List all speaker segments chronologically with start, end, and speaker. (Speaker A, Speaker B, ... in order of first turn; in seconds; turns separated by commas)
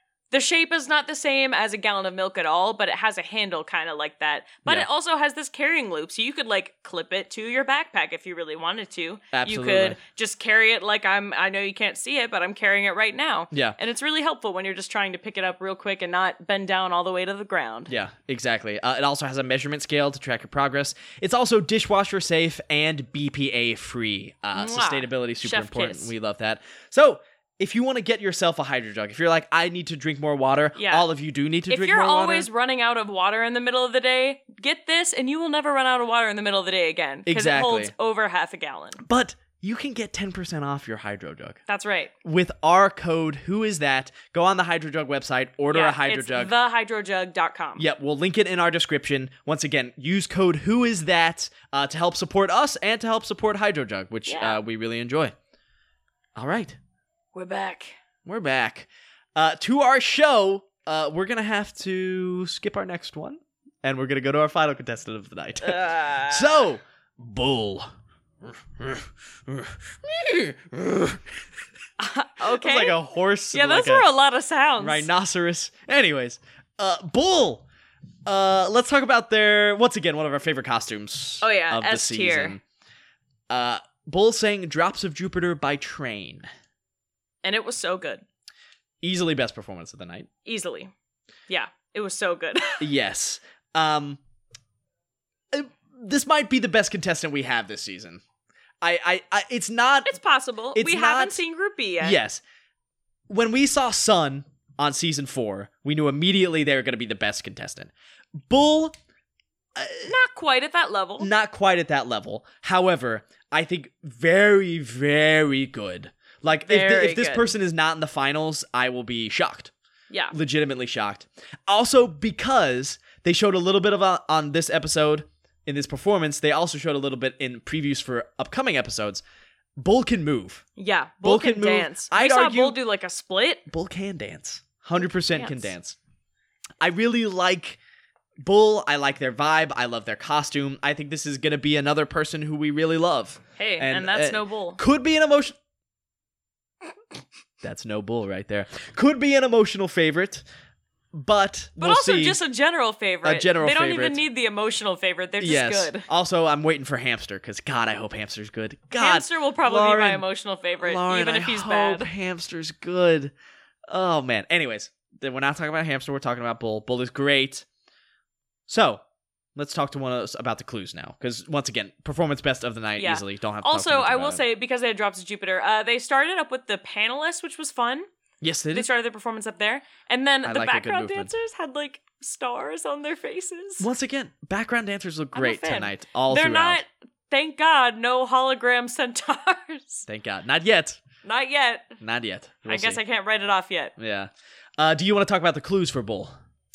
Speaker A: 0.3-17.9, Speaker B: 9.3-10.0, Speaker B: 13.5-13.8, Speaker B: 17.9-32.5, Speaker A: 24.6-26.1, Speaker A: 30.8-31.1, Speaker A: 31.7-39.0, Speaker B: 37.3-37.9, Speaker B: 39.0-41.6, Speaker A: 41.7-42.1, Speaker B: 42.2-46.5, Speaker A: 45.7-47.8, Speaker B: 47.8-55.3, Speaker A: 54.3-54.6, Speaker B: 56.4-56.8, Speaker A: 57.3-58.0, Speaker B: 58.3-67.9, Speaker A: 65.6-66.7, Speaker B: 68.8-71.2, Speaker A: 72.0-73.0, Speaker B: 72.5-74.1, Speaker A: 73.5-75.1, Speaker B: 74.8-77.7, Speaker B: 78.3-82.6, Speaker A: 81.4-82.6, Speaker B: 83.5-86.5, Speaker A: 87.4-88.2, Speaker B: 89.0-90.3, Speaker A: 90.5-90.9, Speaker A: 91.5-92.8, Speaker B: 92.8-94.2, Speaker B: 95.5-98.2, Speaker B: 98.8-100.2, Speaker A: 100.0-102.2, Speaker B: 100.7-101.4, Speaker B: 102.0-102.4, Speaker B: 103.3-107.9, Speaker B: 108.5-108.9, Speaker B: 109.8-110.1, Speaker A: 110.0-111.3, Speaker B: 111.2-119.7, Speaker A: 116.7-117.5, Speaker B: 120.3-129.2, Speaker B: 129.8-130.6, Speaker A: 130.8-133.7, Speaker B: 131.2-132.8, Speaker B: 133.7-136.0, Speaker A: 135.3-135.7, Speaker B: 136.8-137.8, Speaker B: 138.4-145.6, Speaker A: 143.6-144.8, Speaker B: 147.6-150.4, Speaker B: 151.1-152.4, Speaker A: 151.8-156.1, Speaker B: 153.2-154.2, Speaker B: 155.4-160.2, Speaker A: 159.0-162.1, Speaker B: 160.8-163.3, Speaker B: 163.9-167.7, Speaker B: 168.7-169.0, Speaker B: 169.6-174.4, Speaker A: 173.0-178.1, Speaker B: 178.4-178.9, Speaker A: 178.7-183.9, Speaker B: 180.4-181.3, Speaker B: 183.8-186.8, Speaker A: 185.3-190.1, Speaker B: 190.1-191.0, Speaker A: 191.2-192.0, Speaker B: 192.0-193.0, Speaker A: 192.7-193.9, Speaker B: 194.0-196.3